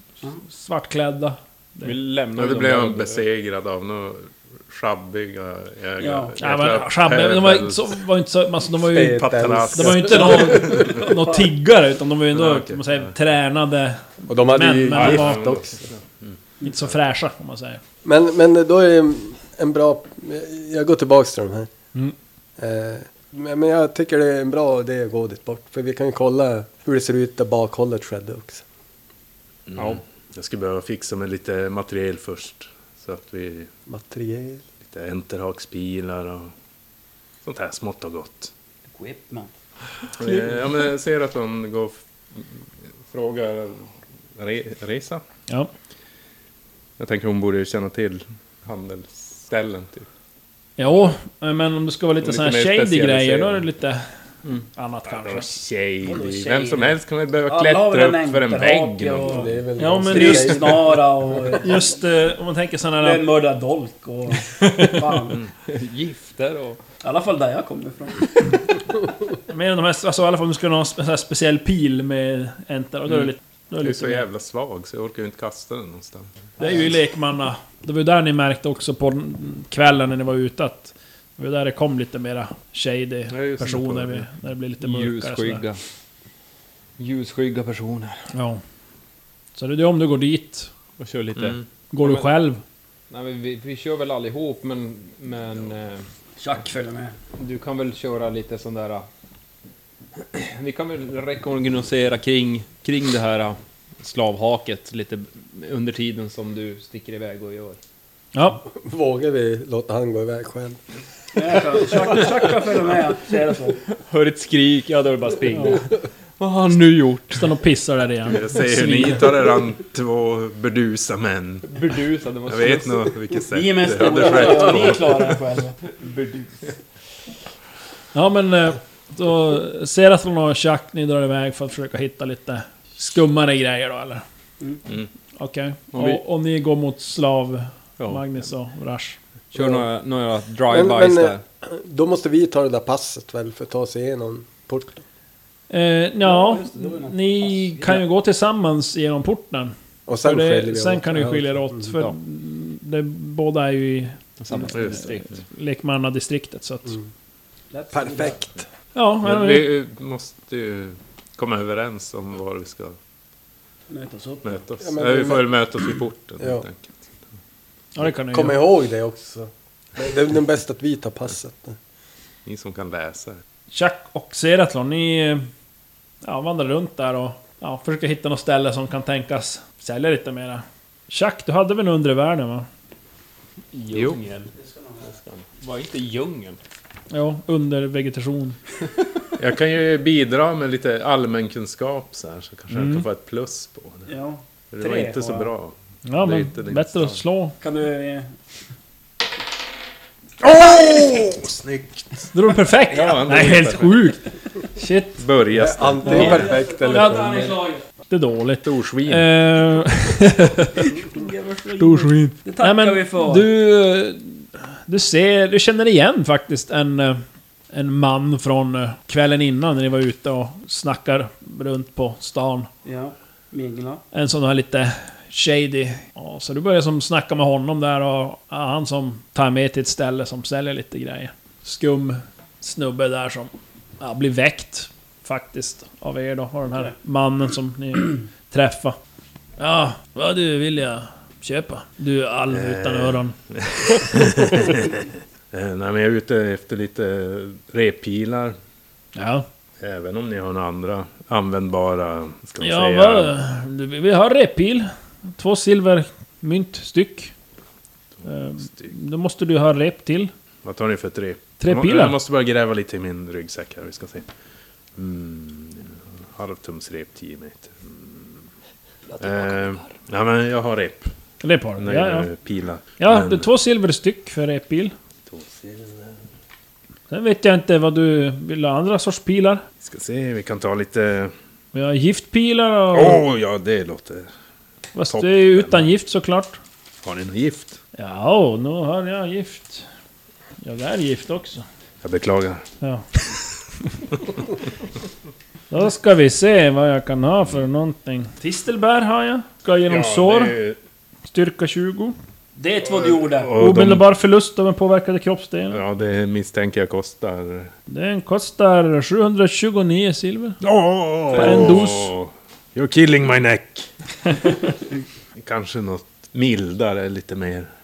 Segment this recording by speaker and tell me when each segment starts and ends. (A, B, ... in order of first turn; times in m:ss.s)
0:00.4-0:02.0 A
0:01.8-0:03.2 B
0:02.4-0:07.9 C
0:06.0-0:06.3 D
0:06.4-0:15.4 A
0:08.8-0:11.0 E
0:09.1-0:10.9 C
0:10.8-0:11.5 D
0:12.3-0:13.1 C
0:14.3-0:15.8 E
0:14.9-0:16.4 C
0:16.6-0:17.8 A
0:18.0-0:21.7 E
0:22.6-0:28.6 E
0:29.7-0:33.7 C
0:33.9-0:34.6 E
0:34.9-0:36.5 C
0:37.4-0:38.5 C
0:38.9-0:39.5 D
0:40.2-0:45.2 C
0:47.0-0:50.1 C
0:50.8-0:54.1 A
0:52.2-0:53.6 C
0:54.7-0:55.5 A
0:55.1-0:59.5 C
0:56.0-0:59.5 D
0:59.2-1:01.0 E
0:59.8-1:00.9 A
1:00.1-1:01.8 D
1:01.5-1:03.2 A
1:03.0-1:05.4 D
1:05.7-1:06.8 B
1:07.0-1:08.8 D
1:09.5-1:14.2 A
1:13.8-1:16.3 C
1:16.6-1:25.6 A
1:23.3-1:24.2 C
1:24.8-1:25.8 B
1:27.0-1:28.2 B
1:28.3-1:28.6 A
1:29.6-1:30.7 A
1:31.0-1:32.3 B
1:31.4-1:31.6 C
1:31.9-1:32.6 A
1:33.1-1:36.0 B
1:36.4-1:37.1 D
1:37.4-1:39.1 B
1:40.2-1:47.8 B
1:48.3-1:48.6 A
1:48.6-1:50.8 E
1:51.3-1:53.8 D
1:54.0-1:57.5 B
1:55.5-1:55.8 A
1:57.3-1:59.2 A
1:58.3-2:01.7 C
2:01.6-2:03.2 B
2:02.5-2:05.4 C
2:03.5-2:05.8 D
2:04.1-2:05.2 B
2:05.9-2:06.7 B
2:08.1-2:14.2 A
2:15.4-2:19.2 A
2:15.9-2:16.2 B
2:19.5-2:21.4 B
2:19.6-2:19.8 E
2:20.7-2:25.0 E
2:25.7-2:37.0 A
2:26.2-2:28.0 D
2:30.1-2:31.9 E
2:34.4-2:35.4 B
2:37.7-2:38.4 D
2:37.9-2:38.6 E
2:38.9-2:39.7 A
2:39.2-2:43.0 C
2:43.9-2:44.6 D
2:44.4-2:47.1 C
2:44.8-2:45.5 E
2:47.9-2:48.6 A
2:48.3-2:51.8 E
2:52.4-2:53.4 C
2:53.7-2:55.5 A
2:56.2-3:02.7 A
3:03.7-3:04.5 B
3:03.9-3:04.2 C
3:05.5-3:06.6 B
3:07.1-3:08.6 A
3:09.4-3:14.1 C
3:12.7-3:13.0 A
3:14.1-3:15.5 D
3:14.7-3:17.2 C
3:16.0-3:17.6 A
3:17.6-3:18.3 D
3:20.4-3:22.3 C
3:22.3-3:24.2 A
3:22.9-3:24.1 C
3:24.7-3:25.2 A
3:25.2-3:26.4 C
3:25.5-3:27.5 E
3:26.0-3:27.6 A
3:26.0-3:27.8 D
3:28.1-3:31.0 A
3:28.6-3:29.3 C
3:30.8-3:33.5 D
3:31.8-3:42.7 A
3:42.8-3:44.0 D
3:44.1-3:59.0 A
3:59.6-4:03.4 A
4:02.5-4:08.6 C
4:09.1-4:09.4 A
4:09.8-4:13.3 C
4:12.6-4:17.3 A
4:18.2-4:20.3 A
4:18.6-4:18.9 C
4:20.6-4:24.3 C
4:21.6-4:22.2 A
4:25.0-4:28.4 C
4:29.2-4:31.1 C
4:31.4-4:32.3 A
4:31.8-4:33.5 C
4:33.0-4:34.9 A
4:35.3-4:36.2 C
4:37.1-4:39.6 A
4:39.8-4:41.3 C
4:41.7-4:43.2 A
4:42.9-4:44.3 C
4:44.9-4:46.6 A
4:45.1-4:45.9 C
4:47.0-4:47.8 C
4:48.0-4:49.9 A
4:50.6-4:51.6 A
4:52.0-4:52.6 C
4:52.8-4:53.0 A
4:55.7-5:00.6 A
4:59.9-5:00.8 C
5:01.3-5:02.2 A
5:02.6-5:03.5 D
5:02.9-5:04.0 C
5:03.5-5:05.8 A
5:05.7-5:07.7 C
5:07.9-5:10.6 A
5:10.6-5:13.9 C
5:11.3-5:12.1 A
5:15.4-5:17.7 C